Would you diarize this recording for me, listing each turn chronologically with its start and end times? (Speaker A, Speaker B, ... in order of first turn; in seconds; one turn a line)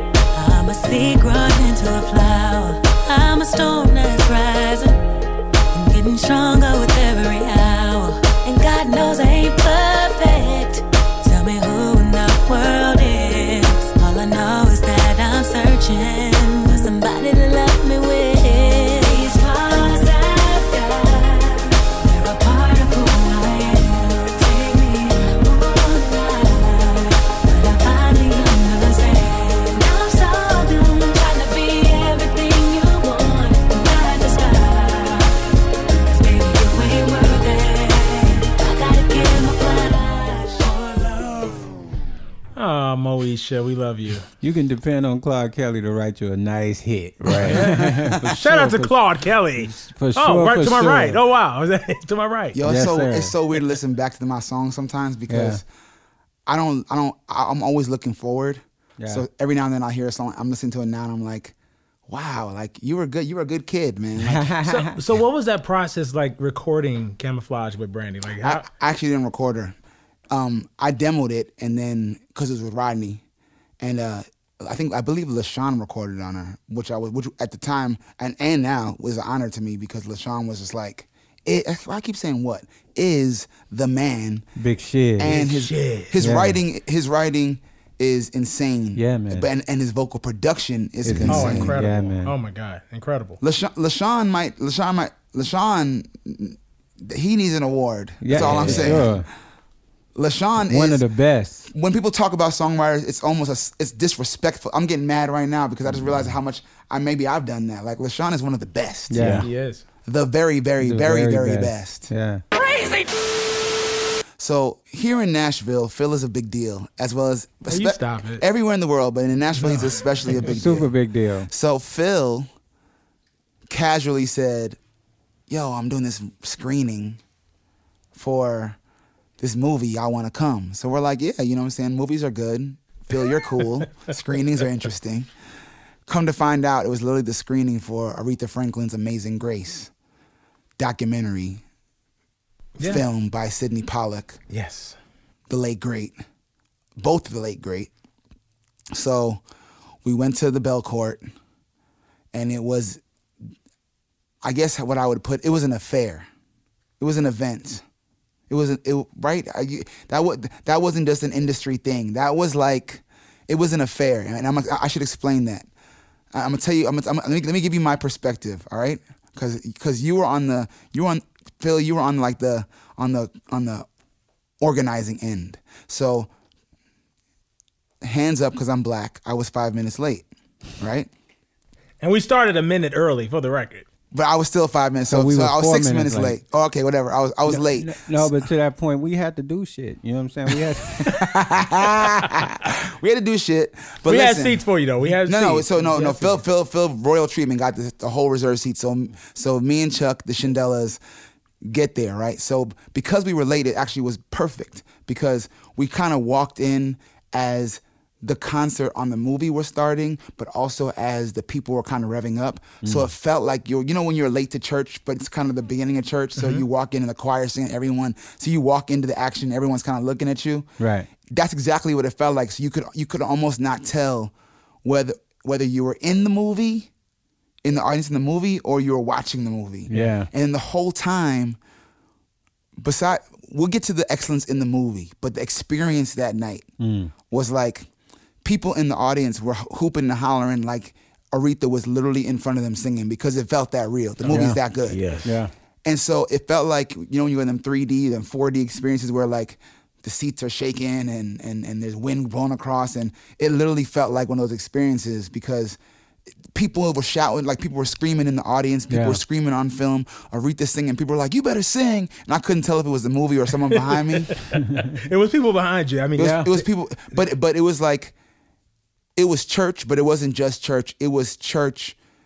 Speaker A: 0.3-5.0
Speaker A: 5.7-41.7
Speaker B: 42.5-44.3
Speaker C: 44.4-49.0
Speaker D: 47.2-47.6
Speaker B: 47.3-52.6
Speaker C: 49.6-51.2
Speaker E: 52.5-55.6
Speaker C: 52.6-53.4
Speaker C: 55.3-55.6
Speaker E: 56.5-61.5
Speaker C: 59.0-59.2
Speaker E: 62.1-64.5
Speaker C: 64.2-65.0
Speaker B: 64.7-68.7
Speaker E: 68.4-69.8
Speaker E: 70.3-73.2
Speaker E: 73.8-84.5
Speaker C: 84.6-85.4
Speaker E: 85.2-91.8
Speaker B: 85.2-86.1
Speaker C: 86.2-86.6
Speaker C: 89.0-89.5
Speaker C: 91.0-92.3
Speaker B: 91.3-93.4
Speaker E: 93.4-99.2
Speaker C: 98.2-99.3
Speaker D: 98.3-99.1
Speaker E: 100.1-101.1
Speaker C: 100.7-101.7
Speaker E: 101.7-109.3
Speaker C: 109.1-109.5
Speaker D: 109.2-109.5
Speaker B: 109.4-109.8
Speaker E: 110.0-112.1
Speaker C: 110.8-112.4
Speaker E: 114.4-120.9
Speaker B: 117.7-118.4
Speaker B: 119.6-120.4
Speaker C: 120.5-121.5
Speaker E: 121.5-122.5
Speaker E: 123.7-124.8
Speaker E: 125.5-127.2
Speaker E: 128.1-128.8
Speaker E: 129.4-135.3
Speaker E: 136.1-139.9
Speaker E: 140.8-141.6
Speaker B: 142.8-143.1
Speaker E: 142.8-144.4
Speaker B: 144.5-145.0
Speaker E: 145.5-146.2
Speaker E: 147.0-147.9
Speaker E: 148.9-149.4
Speaker E: 150.0-151.3
Speaker E: 152.3-153.0
Speaker E: 154.4-156.3
Speaker E: 157.0-157.8
Speaker E: 158.5-165.7
Speaker E: 166.3-173.9
Speaker E: 174.6-176.3
Speaker E: 178.0-180.3
Speaker E: 180.8-181.1
Speaker B: 182.0-183.9
Speaker E: 184.1-188.3
Speaker C: 185.1-186.4
Speaker C: 187.5-191.1
Speaker E: 191.0-194.6
Speaker B: 194.1-196.4
Speaker E: 195.2-201.0
Speaker E: 201.6-220.7
Speaker C: 212.8-213.1
Speaker B: 216.4-216.6
Speaker C: 220.8-221.1
Speaker E: 221.3-224.3
Speaker E: 224.8-226.9
Speaker E: 227.6-231.6
Speaker C: 229.9-230.3
Speaker E: 232.8-236.7
Speaker C: 236.8-237.1
Speaker E: 237.3-237.9
Speaker E: 238.4-245.0
Speaker C: 244.3-244.6
Speaker D: 244.9-245.3
Speaker C: 245.2-245.5
Speaker E: 245.8-255.8
Speaker E: 256.5-264.3
Speaker C: 258.9-259.2
Speaker B: 263.7-267.2
Speaker E: 266.2-268.1
Speaker E: 269.1-272.0